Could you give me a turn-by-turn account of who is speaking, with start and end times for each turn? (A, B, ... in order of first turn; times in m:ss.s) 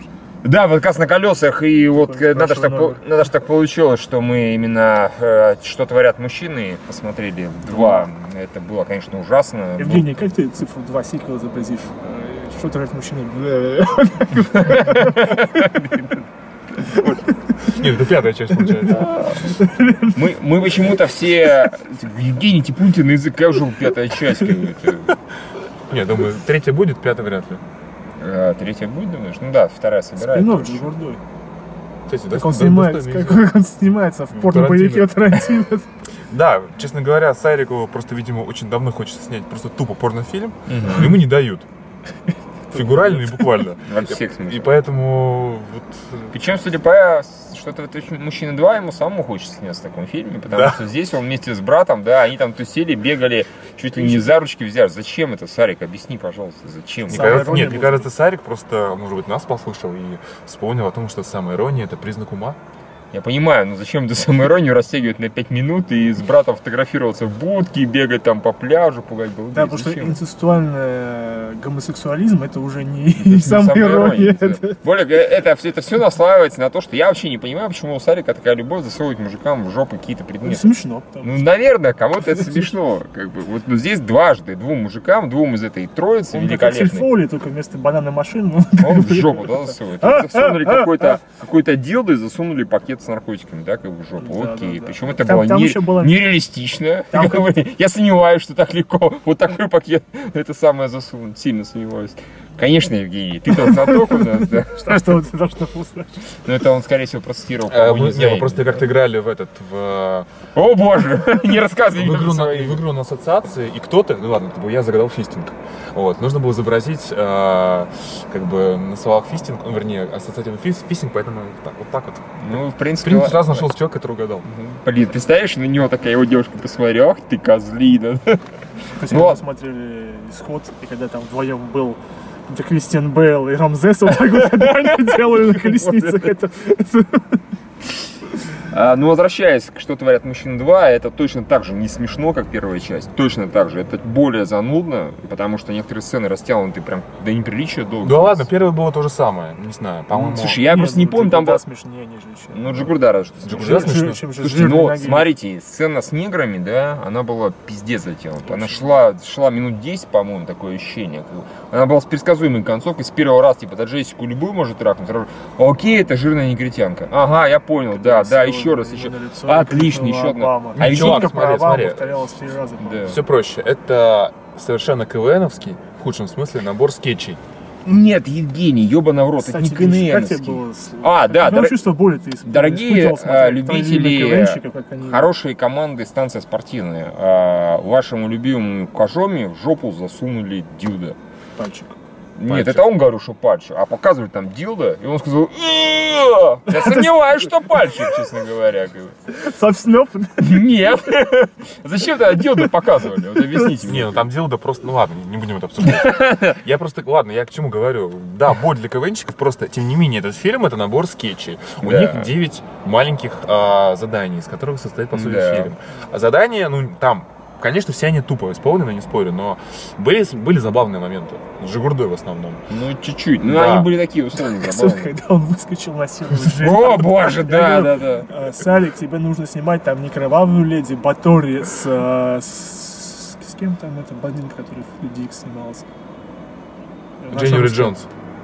0:00.4-0:10.1 A
0:01.9-0:03.0 B
0:09.8-0:15.6 B
0:14.5-0:16.2 A
0:16.8-0:17.2 A
0:16.9-0:17.6 B
0:17.6-0:19.1 C
0:18.8-0:25.2 A
0:19.4-0:20.3 B
0:25.9-0:27.6 C
0:28.2-0:30.9 A
0:30.2-0:31.2 B
0:32.1-0:33.5 C
0:32.3-0:35.9 B
0:34.3-0:35.3 C
0:36.3-0:41.7 C
0:40.7-0:41.2 A
0:42.7-0:43.6 B
0:42.7-0:46.4 C
0:43.8-0:44.8 A
0:46.3-0:57.8 A
0:50.5-0:50.8 C
0:57.1-0:58.1 B
0:57.1-1:02.6 C
1:03.1-1:10.2 A
1:09.5-1:14.8 B
1:13.2-1:27.1 A
1:20.4-1:21.5 B
1:22.2-1:22.7 B
1:26.3-1:31.2 B
1:28.8-1:45.2 A
1:34.2-1:36.3 B
1:37.1-1:37.6 B
1:43.5-1:46.2 B
1:46.4-1:48.8 A
1:47.7-1:50.3 C
1:50.5-1:52.8 A
1:51.9-2:04.5 C
2:02.4-2:03.7 A
2:04.4-2:08.4 A
2:09.0-2:17.4 B
2:09.0-2:09.4 A
2:14.2-2:16.3 A
2:18.6-2:28.5 A
2:28.0-2:30.6 C
2:30.1-2:31.6 A
2:30.5-2:35.3 B
2:32.5-2:51.3 A
2:33.4-2:34.2 C
2:38.5-2:38.9 B
2:47.9-2:53.2 B
2:50.8-2:52.3 C
2:52.8-2:53.2 A
2:53.0-2:57.4 C
2:57.8-3:01.8 A
2:59.4-3:05.3 B
3:02.4-3:11.2 A
3:11.6-3:12.0 B
3:12.4-3:19.2 A
3:12.5-3:12.8 C
3:16.7-3:17.5 B
3:19.3-3:20.7 B
3:20.4-3:24.2 A
3:23.4-3:23.7 B
3:23.8-3:42.6 C
3:25.8-3:26.5 A
3:31.8-3:32.3 A
3:35.1-3:35.7 A
3:42.7-3:45.1 A
3:43.4-3:43.9 C
3:44.3-3:55.8 B
3:46.5-3:48.3 A
3:57.2-3:58.0 B
3:57.3-3:58.1 C